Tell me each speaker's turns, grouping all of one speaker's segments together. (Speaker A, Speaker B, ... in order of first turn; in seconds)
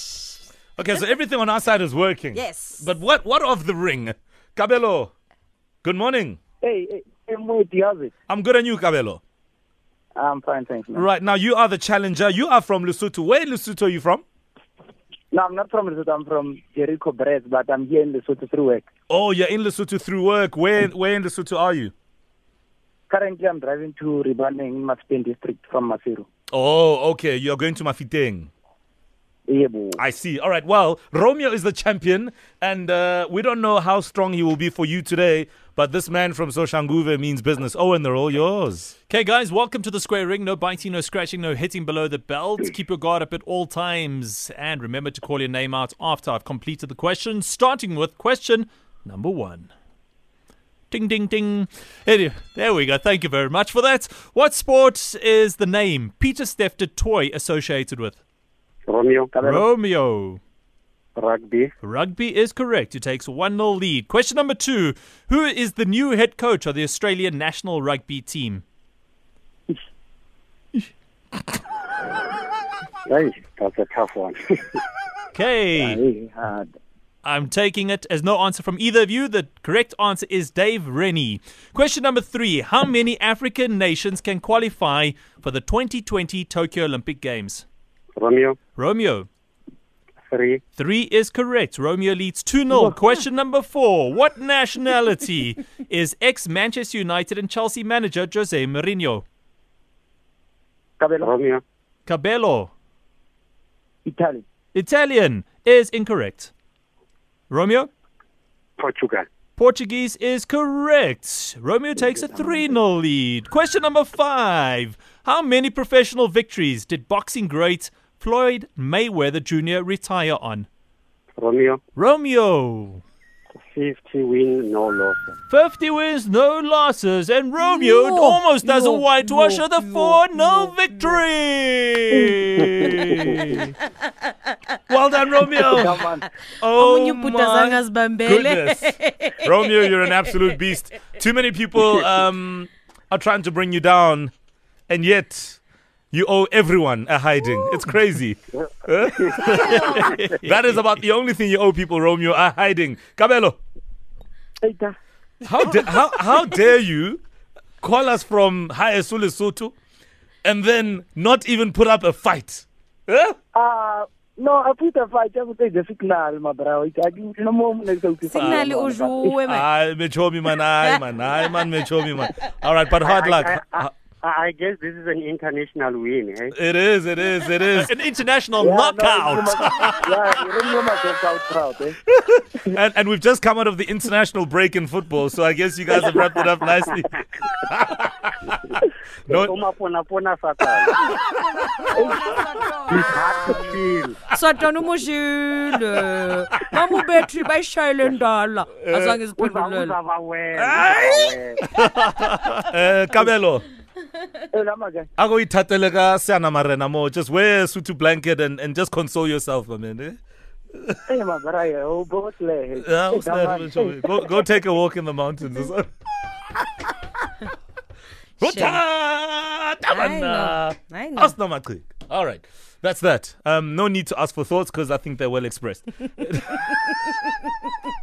Speaker A: 0.8-5.1, 5.8-6.4, 8.3-9.2, 10.9-14.2, 19.1-21.9, 26.5-28.5, 29.9-39.0, 134.9-136.0, 136.6-144.3, 144.9-145.6, 146.1-153.6, 155.4-157.2, 157.8-159.7, 160.4-163.4, 168.4-168.8, 169.4-173.9, 176.5-177.9, 182.3-187.2, 187.7-188.6, 196.5-197.0, 198.8-199.2, 200.6-203.6, 205.2-210.2, 212.8-215.9, 218.4-226.8
Speaker B: 2.4-2.8, 127.6-130.7, 136.8-139.5, 168.3-169.7, 191.6-193.6, 194.3-199.9, 218.4-218.8, 219.9-221.3
Speaker C: 6.6-8.1, 10.2-11.1, 15.3-18.9, 23.1-26.3, 29.5-30.0, 59.3-59.7, 75.8-76.7, 101.0-101.3, 104.0-104.5, 112.0-112.7, 135.6-136.2, 154.6-154.9, 163.5-169.4, 178.6-182.0, 191.9-192.4, 204.5-205.1, 211.1-214.3
Speaker D: 39.1-49.7, 50.9-58.2, 59.4-60.4, 61.8-68.6, 75.3-76.0, 77.2-87.7, 88.8-89.3, 90.8-99.2, 102.1-102.7, 104.7-106.5, 107.5-107.9, 109.6-120.7, 122.0-123.0, 125.5-133.7, 149.4-151.0, 177.8-180.4, 201.8-202.5
Speaker E: 58.9-59.3, 61.2-61.7, 73.1-74.8, 88.2-88.6, 90.3-90.6, 101.2-101.6, 108.8-109.3, 121.4-121.8, 123.7-125.2, 132.6-133.6, 149.2-150.1, 173.0-176.6, 189.3-190.9, 192.9-194.3, 199.3-201.6